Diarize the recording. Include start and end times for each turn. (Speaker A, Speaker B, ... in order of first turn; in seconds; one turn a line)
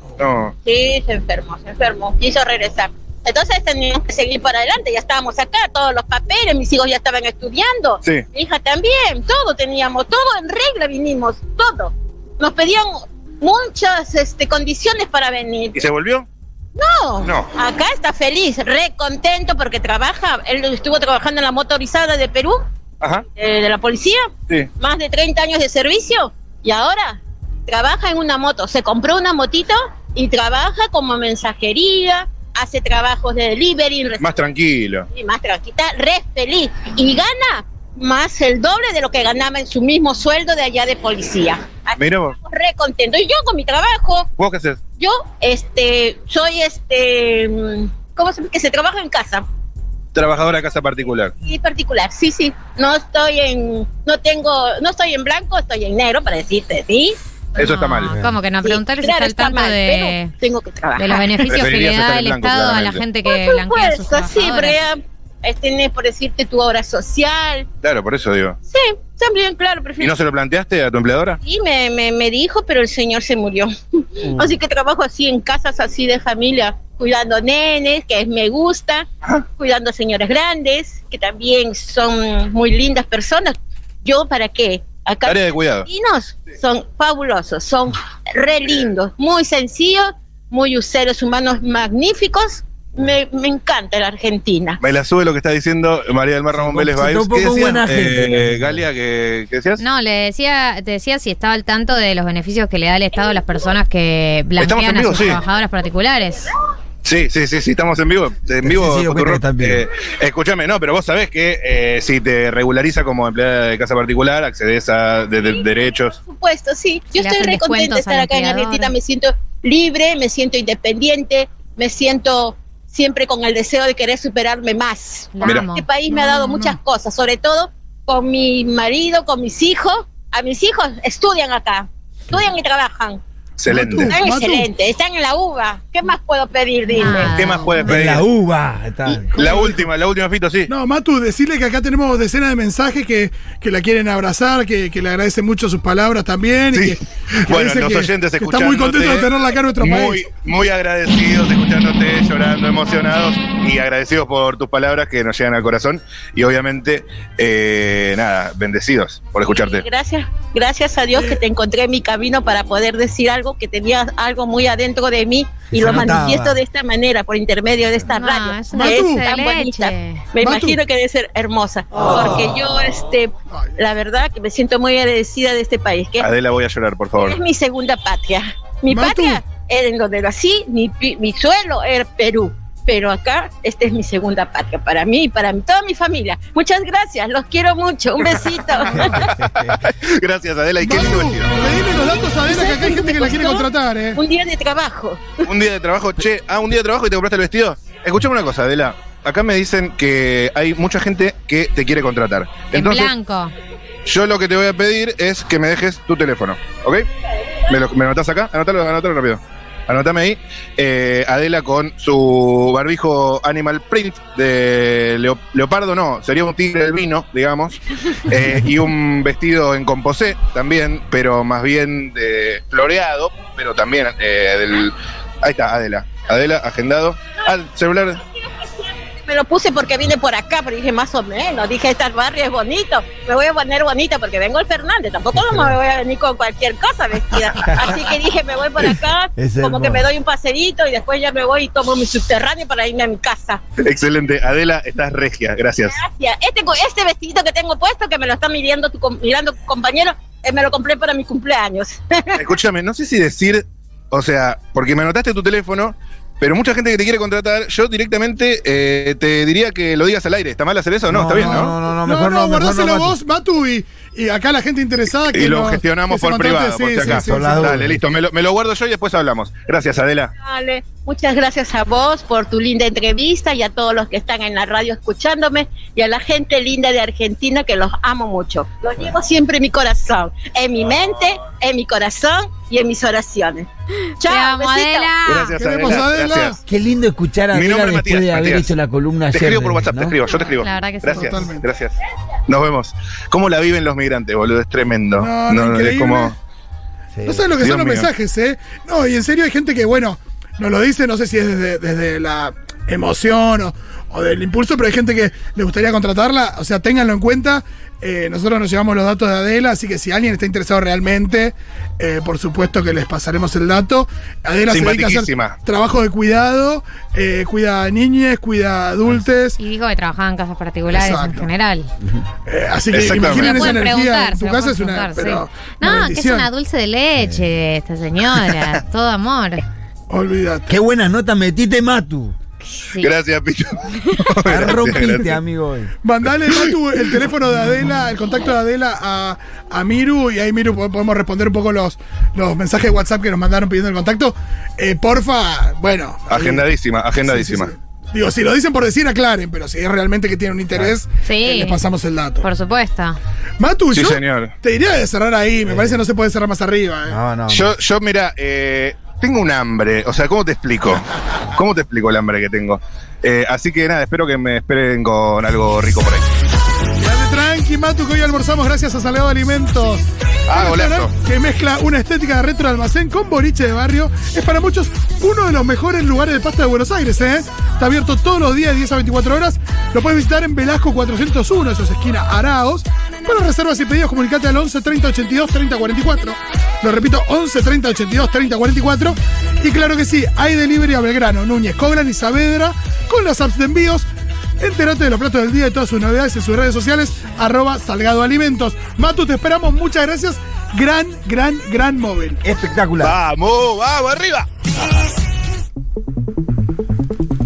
Speaker A: 0.2-0.5
Speaker B: 0.6-15.8
Speaker A: 15.7-16.3
Speaker B: 16.8-22.6
Speaker A: 17.2-17.5
Speaker B: 23.4-34.3
Speaker A: 34.2-35.1
Speaker B: 35.1-44.3
Speaker A: 42.0-42.3
Speaker A: 44.4-44.8
Speaker B: 45.0-49.4
Speaker A: 50.1-51.3
Speaker B: 51.4-57.2
Speaker A: 57.6-58.1
Speaker C: 57.6-60.3
Speaker D: 58.1-58.4
Speaker B: 58.6-61.5
Speaker C: 61.0-64.8
Speaker A: 61.5-63.0
Speaker B: 63.2-67.7
Speaker A: 67.8-68.6
Speaker B: 68.7-70.2
Speaker A: 70.0-71.4
Speaker B: 71.4-94.8
Speaker A: 85.2-85.9
Speaker A: 94.8-99.8
Speaker D: 96.5-98.8
Speaker C: 99.8-106.5
Speaker A: 104.6-105.4
Speaker A: 107.0-116.2
Speaker D: 108.6-109.8
Speaker B: 116.2-133.2
Speaker C: 117.1-118.9
Speaker C: 125.3-125.9
Speaker A: 125.4-125.7
Speaker E: 126.1-126.8
Speaker A: 133.6-134.2
Speaker E: 133.7-134.7
Speaker B: 134.1-137.3
Speaker C: 136.9-137.9
Speaker E: 137.1-137.7
Speaker A: 137.2-138.2
Speaker D: 137.8-139.5
Speaker A: 139.0-140.7
Speaker E: 139.4-139.8
Speaker E: 140.7-150.2
Speaker A: 146.7-149.3
Speaker A: 149.8-159.8
Speaker B: 159.6-176.3
Speaker E: 161.1-161.4
Speaker D: 165.7-166.6
Speaker C: 168.1-170.3
Speaker E: 168.7-169.3
Speaker E: 170.4-170.8
Speaker A: 176.2-177.4
Speaker B: 177.1-189.3
Speaker E: 178.9-179.4
Speaker D: 188.9-189.8
Speaker A: 189.8-191.6
Speaker E: 190.8-194.2
Speaker B: 192.4-195.5
Speaker A: 195.4-203.1
Speaker C: 202.7-203.5
Speaker A: 204.0-207.1
Speaker A: 207.7-228.2
Speaker B: 228.6-243.6
Speaker D: 235.3-235.8
Speaker D: 239.3-240.1
Speaker A: 243.8-246.0
Speaker B: 245.8-252.4
Speaker A: 252.3-261.7
Speaker D: 261.1-263.2
Speaker E: 261.3-267.7
Speaker A: 265.3-270.3
Speaker D: 267.0-268.0
Speaker B: 270.4-285.1
Speaker C: 284.2-285.5
Speaker A: 285.2-286.6
Speaker E: 285.5-286.6
Speaker D: 286.6-290.2
Speaker A: 287.5-288.7
Speaker A: 289.3-296.3
Speaker C: 290.6-291.5
Speaker E: 291.1-291.6
Speaker E: 295.2-296.3
Speaker D: 297.1-297.5
Speaker E: 297.3-319.6
Speaker A: 297.6-298.1
Speaker A: 314.7-315.6
Speaker C: 319.6-321.9
Speaker E: 320.9-321.5
Speaker E: 322.4-326.5
Speaker A: 322.9-323.8
Speaker C: 323.2-329.6
Speaker D: 327.2-327.5
Speaker E: 330.1-330.7
Speaker D: 330.7-332.4
Speaker C: 332.8-333.1
Speaker A: 333.0-335.3
Speaker C: 334.1-334.3
Speaker D: 334.4-335.9
Speaker E: 336.0-346.6
Speaker A: 346.3-347.7
Speaker E: 347.2-352.4
Speaker C: 351.2-351.8
Speaker C: 352.4-353.2
Speaker E: 353.6-357.2
Speaker A: 353.9-354.5
Speaker D: 355.6-356.0
Speaker D: 357.1-357.7
Speaker A: 357.5-366.2
Speaker E: 367.0-394.1
Speaker A: 370.5-371.1
Speaker E: 394.6-402.4
Speaker D: 402.4-403.2
Speaker A: 403.0-404.5